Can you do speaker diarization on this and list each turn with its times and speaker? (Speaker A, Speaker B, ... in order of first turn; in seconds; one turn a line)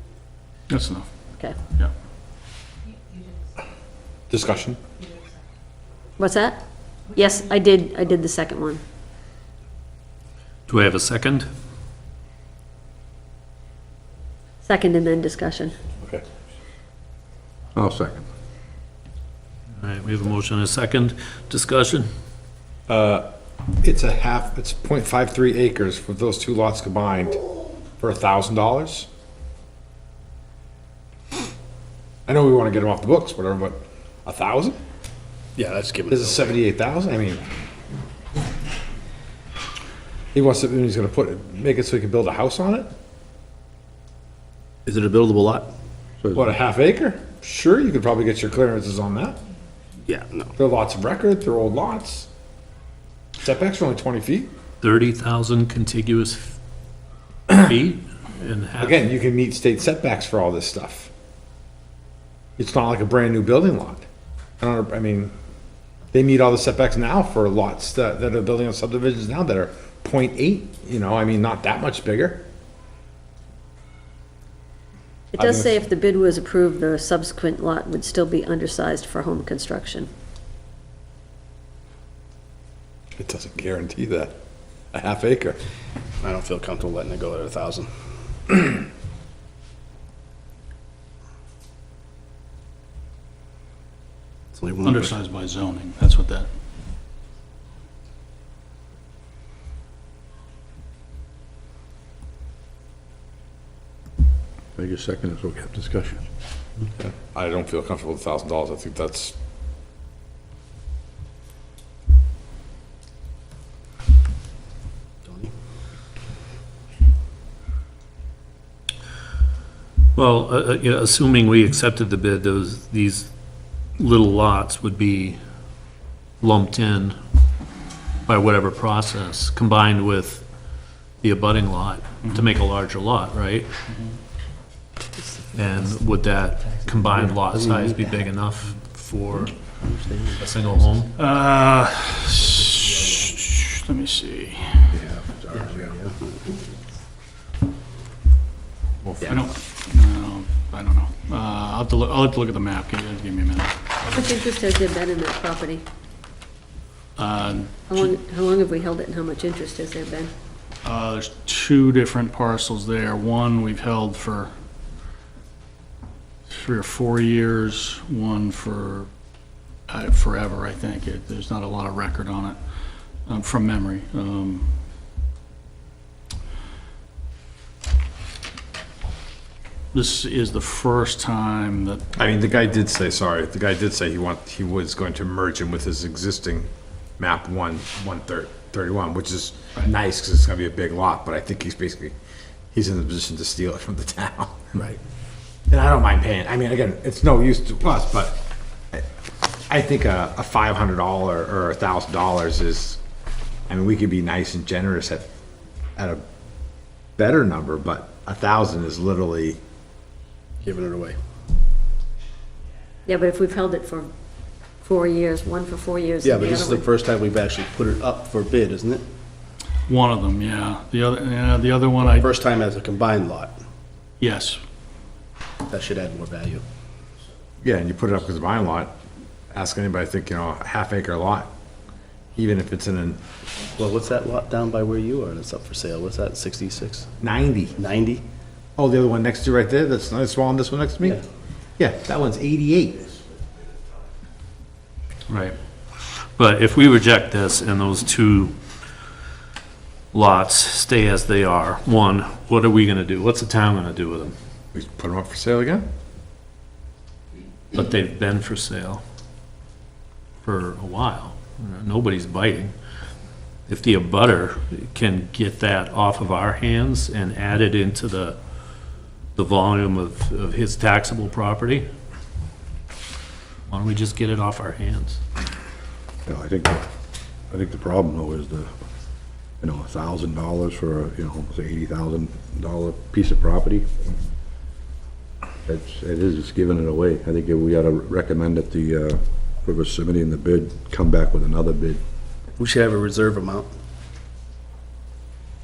Speaker A: 0.7-1.1
Speaker B: 4.3-4.8
Speaker C: 6.2-8.8
Speaker D: 10.7-11.5
Speaker C: 14.6-15.7
Speaker E: 17.7-18.2
Speaker D: 19.8-22.1
Speaker B: 22.9-23.3
Speaker B: 23.8-27.4
Speaker B: 28.0-29.1
Speaker B: 32.3-34.8
Speaker F: 35.5-36.6
Speaker B: 36.1-37.4
Speaker B: 40.3-42.9
Speaker F: 44.9-45.7
Speaker E: 46.2-46.5
Speaker B: 46.3-49.4
Speaker F: 50.0-50.5
Speaker B: 50.6-52.3
Speaker B: 53.4-54.5
Speaker D: 54.8-56.6
Speaker D: 57.5-59.0
Speaker B: 58.8-61.1
Speaker B: 62.6-64.0
Speaker B: 64.6-65.3
Speaker B: 66.1-72.5
Speaker C: 75.3-80.1
Speaker B: 75.3-75.8
Speaker B: 83.2-84.3
Speaker B: 84.9-85.6
Speaker F: 86.2-87.9
Speaker F: 94.5-95.1
Speaker A: 94.8-96.5
Speaker E: 104.8-106.2
Speaker B: 107.0-109.3
Speaker F: 115.2-115.5
Speaker D: 120.1-123.3
Speaker D: 124.0-125.4
Speaker D: 126.4-127.2
Speaker D: 128.2-130.4
Speaker D: 131.2-133.7
Speaker A: 133.9-134.2
Speaker D: 135.5-139.6
Speaker F: 137.2-138.2
Speaker F: 139.7-140.5
Speaker D: 140.4-141.1
Speaker A: 141.1-145.0
Speaker E: 145.3-145.6
Speaker F: 145.5-146.4
Speaker D: 149.0-149.4
Speaker A: 149.2-154.0
Speaker C: 154.1-155.8
Speaker A: 157.2-158.1
Speaker C: 157.9-160.3
Speaker A: 160.8-164.5
Speaker A: 166.5-169.1
Speaker A: 169.9-172.6
Speaker A: 173.2-174.7
Speaker A: 179.9-182.0
Speaker B: 182.2-192.1
Speaker B: 192.7-194.7
Speaker B: 195.7-199.1
Speaker B: 199.7-203.0
Speaker B: 203.7-205.3
Speaker B: 205.9-206.2
Speaker B: 207.2-209.6
Speaker F: 210.6-211.2
Speaker C: 213.1-214.1
Speaker C: 214.8-216.9
Speaker F: 216.2-219.0
Speaker A: 219.9-222.3
Speaker F: 222.0-223.6
Speaker A: 224.2-224.6
Speaker F: 225.7-226.6
Speaker B: 227.6-228.9
Speaker B: 229.5-231.5
Speaker B: 232.3-233.2
Speaker F: 233.7-237.1
Speaker B: 237.2-237.7
Speaker F: 237.8-238.2
Speaker B: 238.8-241.2
Speaker B: 241.8-243.1
Speaker D: 245.3-248.5
Speaker D: 250.1-254.3
Speaker B: 254.7-255.8
Speaker D: 257.7-259.0
Speaker D: 260.4-262.7
Speaker D: 263.7-268.4
Speaker D: 269.3-271.9
Speaker D: 273.7-275.2
Speaker E: 276.2-276.9
Speaker E: 277.5-278.7
Speaker E: 279.6-283.9
Speaker E: 285.6-292.0
Speaker F: 292.6-293.7